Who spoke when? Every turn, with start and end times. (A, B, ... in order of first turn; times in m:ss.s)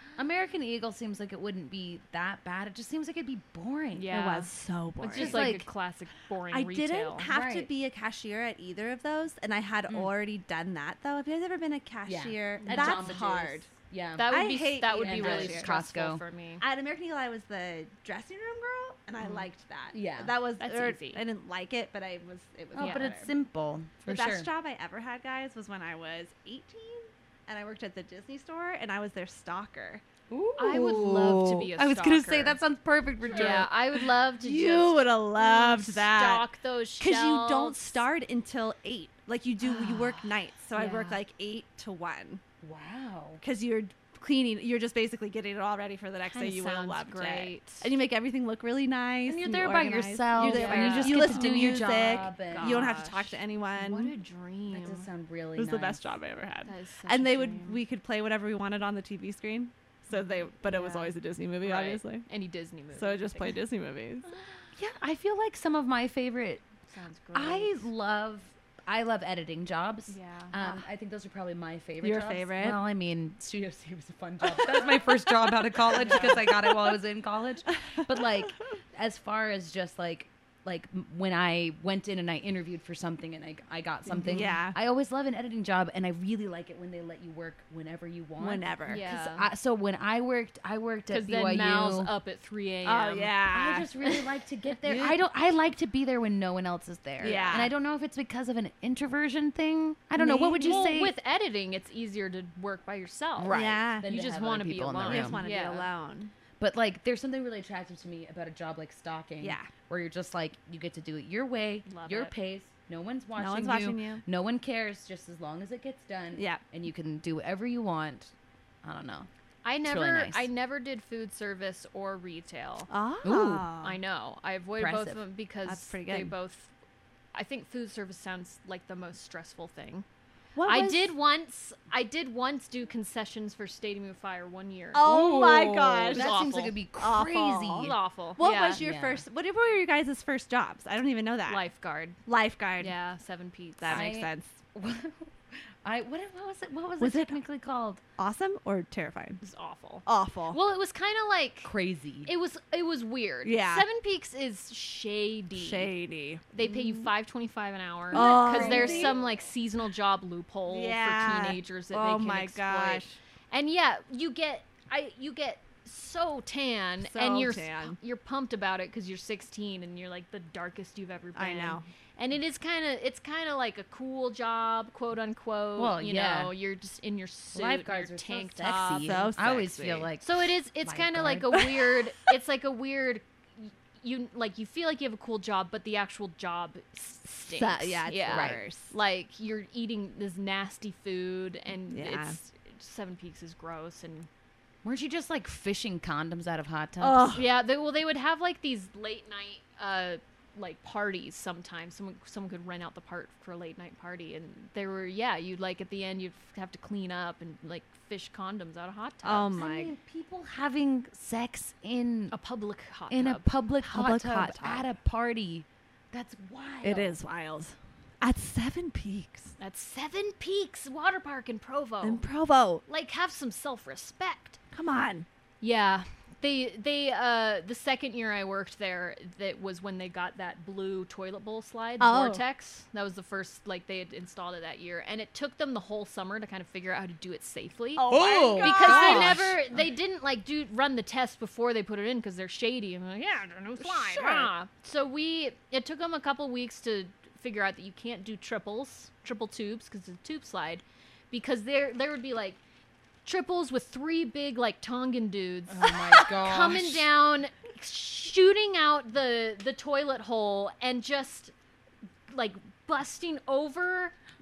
0:00.2-0:04.1 A
0:03.9-0:07.3 B
0:04.1-0:05.5 C
0:05.1-0:05.7 A
0:06.5-0:13.7 C
0:07.3-0:07.7 A
0:09.9-0:10.1 A
0:12.0-0:14.3 A
0:12.6-0:13.2 B
0:14.2-0:16.6 B
0:14.2-0:15.8 C
0:15.0-0:16.2 A
0:16.6-0:23.3 C
0:19.9-0:20.3 A
0:20.6-0:21.2 B
0:22.7-0:24.5 A
0:22.8-0:23.1 B
0:24.0-0:30.0 C
0:30.3-0:33.7 A
0:30.6-0:32.6 B
0:33.3-0:33.7 C
0:33.3-0:38.0 B
0:34.4-0:36.4 C
0:37.0-0:42.4 C
0:39.6-0:41.2 B
0:42.6-0:43.4 A
0:43.4-0:54.1 C
0:46.2-0:47.9 B
0:49.2-0:52.8 A
0:50.4-0:55.1 B
0:54.7-0:56.0 A
0:55.5-1:02.3 C
0:56.6-0:57.8 B
1:00.2-1:03.6 B
1:02.9-1:04.3 C
1:04.8-1:06.6 A
1:06.9-1:07.9 B
1:07.3-1:32.1 A
1:10.1-1:10.6 B
1:12.0-1:12.8 C
1:14.4-1:15.1 C
1:15.9-1:16.9 C
1:15.9-1:16.4 B
1:24.1-1:24.8 C
1:28.4-1:29.0 C
1:28.9-1:29.5 B
1:31.1-1:33.4 B
1:32.8-1:33.9 C
1:33.5-1:41.1 A
1:34.8-1:35.2 C
1:37.2-1:37.7 C
1:37.2-1:37.6 B
1:40.2-1:45.9 B
1:43.4-1:44.1 C
1:43.4-1:45.4 A
1:45.0-1:46.3 C
1:46.6-1:58.3 A
1:49.4-1:49.7 C
1:51.8-1:52.3 B
1:53.4-1:54.2 C
1:56.3-1:56.6 C
1:58.8-1:59.3 A
1:59.6-2:02.9 B
1:59.8-2:00.5 A
2:02.9-2:04.0 C
2:03.2-2:03.7 A
2:03.8-2:06.7 B
2:04.8-2:05.2 A
2:05.6-2:06.3 C
2:07.3-2:10.0 B
2:10.6-2:11.1 C
2:10.6-2:15.0 B
2:14.9-2:21.6 C
2:15.0-2:17.9 A
2:16.1-2:16.8 B
2:17.8-2:18.8 B
2:18.8-2:19.2 A
2:21.5-2:22.2 B
2:22.2-2:22.9 C
2:22.8-2:24.1 B
2:23.8-2:24.6 C
2:23.9-2:28.0 A
2:27.0-2:27.4 C
2:28.2-2:29.4 C
2:29.4-2:31.7 B
2:30.0-2:30.6 C
2:31.6-2:32.3 A
2:32.2-2:35.9 B
2:33.4-2:33.8 C
2:35.5-2:36.9 C
2:36.5-2:59.3 B
2:38.1-2:39.2 A
2:38.1-2:39.2 C
2:40.7-2:43.1 C
2:47.0-2:48.0 C
2:51.3-2:51.8 C
2:55.8-2:56.5 A
2:57.5-3:01.6 A
2:59.0-3:00.1 C
3:00.2-3:14.3 B
3:07.5-3:08.9 C
3:08.3-3:08.6 A
3:11.9-3:12.4 C
3:14.8-3:17.3 A
3:17.0-3:17.6 C
3:17.3-3:29.6 B
3:29.2-3:29.9 C
3:29.5-3:32.3 A
3:32.3-3:33.4 B
3:33.1-3:37.1 A
3:33.8-3:34.9 C
3:36.8-3:39.5 C
3:39.6-3:42.2 B
3:42.0-3:42.8 C
3:42.9-3:44.6 B
3:44.7-3:45.3 C
3:45.6-4:12.6 B
3:52.0-3:52.4 C
3:58.0-3:59.6 C
3:58.1-3:59.6 A
4:03.8-4:04.5 C
4:13.2-4:21.5 B
4:15.7-4:17.1 A
4:22.3-4:24.1 B